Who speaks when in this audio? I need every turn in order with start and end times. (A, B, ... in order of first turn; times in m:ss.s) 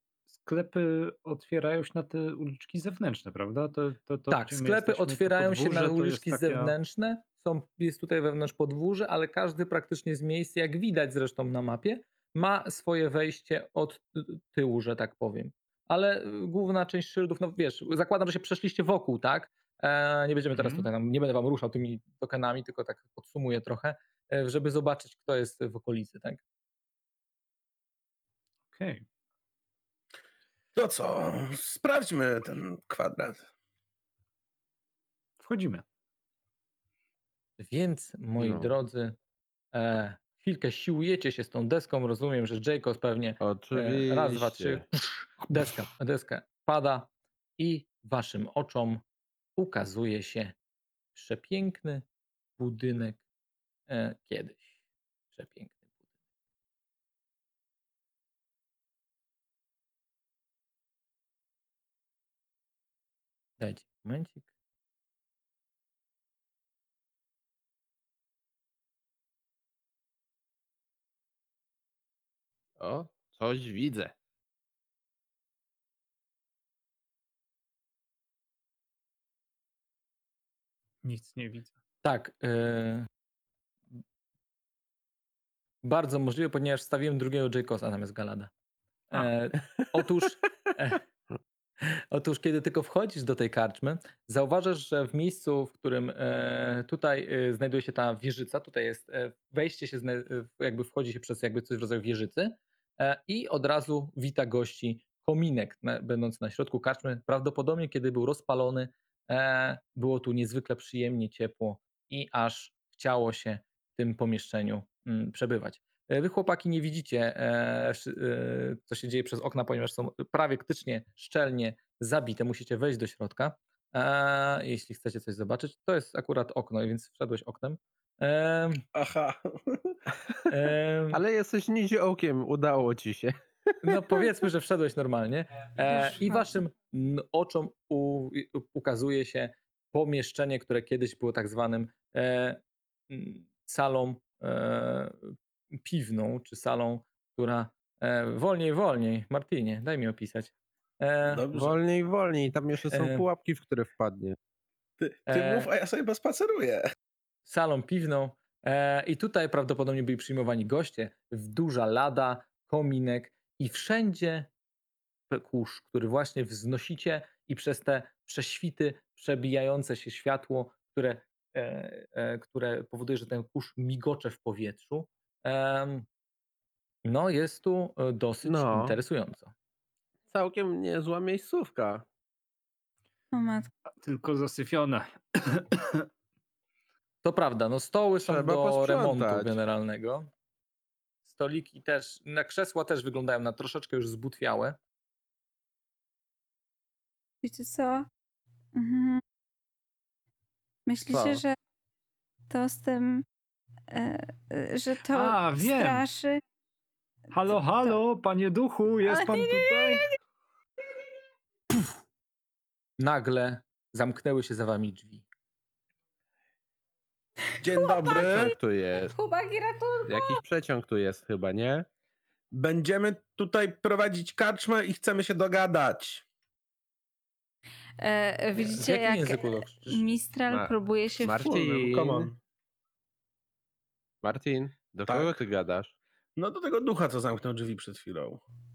0:00.4-0:06.7 A
0:04.3-0:26.4 B
0:20.5-0:20.9 A
0:28.7-0:29.0 A
0:30.8-0:33.5 C
0:35.4-0:35.8 A
0:37.6-0:39.2 B
0:38.4-0:38.7 D
0:39.7-0:49.0 B
0:43.4-0:44.8 D
0:49.6-0:50.6 B
0:51.2-0:52.0 B
0:52.6-0:53.2 B
0:53.9-0:54.7 B
0:55.3-0:55.8 B
1:03.6-1:04.4 B
1:12.8-1:14.1 D
1:21.0-1:21.7 A
1:22.0-1:23.1 B
1:25.8-1:28.5 B
1:29.1-1:31.0 B
1:31.8-2:08.8 B
2:08.9-2:10.0 C
2:10.5-2:11.2 B
2:11.1-2:13.4 D
2:13.8-2:31.4 B
2:15.9-2:16.5 E
2:31.3-2:31.8 C
2:31.5-2:34.4 D
2:32.9-2:33.2 B
2:35.0-2:36.8 C
2:35.3-2:35.7 B
2:37.5-2:44.5 B
2:45.3-2:56.1 B
2:57.0-2:59.5 B
2:58.4-2:59.0 D
3:00.3-3:02.0 D
3:03.3-3:03.7 E
3:04.0-3:06.1 A
3:07.2-3:10.3 B
3:08.2-3:09.6 D
3:11.3-3:14.8 B
3:17.4-3:18.1 E
3:18.8-3:19.2 E
3:20.9-3:21.5 E
3:21.1-3:21.4 D
3:22.5-3:23.2 E
3:23.9-3:26.4 E
3:25.1-3:26.0 A
3:27.3-3:30.1 A
3:29.1-3:30.2 E
3:33.0-3:35.2 B
3:37.6-3:38.6 C
3:37.7-3:38.5 E
3:38.1-3:39.1 D
3:39.0-3:40.4 E
3:40.1-3:41.9 D
3:42.5-3:46.2 C
3:48.0-3:51.5 E
3:48.6-3:50.1 B
3:50.5-3:52.3 D
3:51.4-3:52.4 C
3:54.2-3:55.9 D
3:55.1-3:55.4 C
3:56.4-3:58.4 C